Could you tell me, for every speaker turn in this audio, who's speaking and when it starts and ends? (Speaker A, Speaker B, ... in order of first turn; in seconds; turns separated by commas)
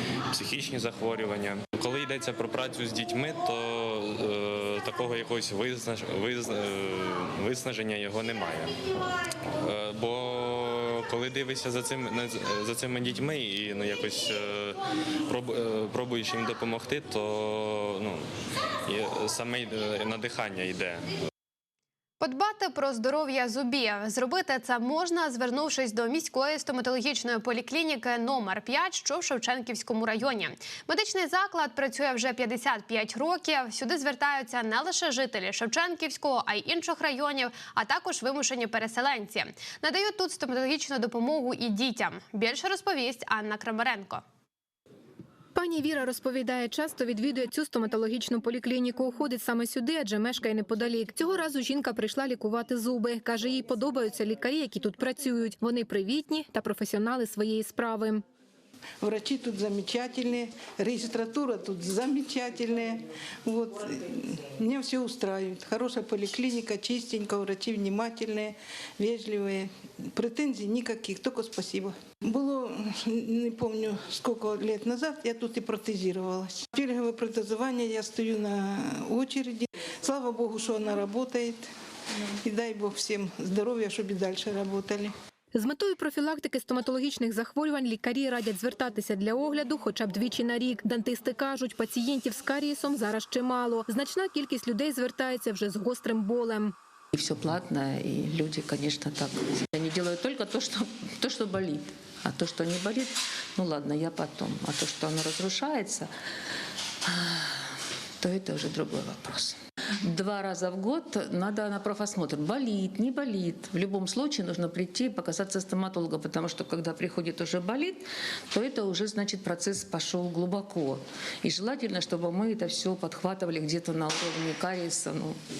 Speaker A: 0.3-8.8, Speaker A: 9.6-18.3, Speaker A: 18.9-21.1, Speaker B: 22.2-44.2, Speaker C: 45.5-58.2, Speaker D: 59.0-81.7, Speaker D: 82.3-85.1, Speaker C: 85.5-96.8, Speaker E: 97.1-106.1, Speaker E: 107.1-107.4, Speaker E: 108.2-125.3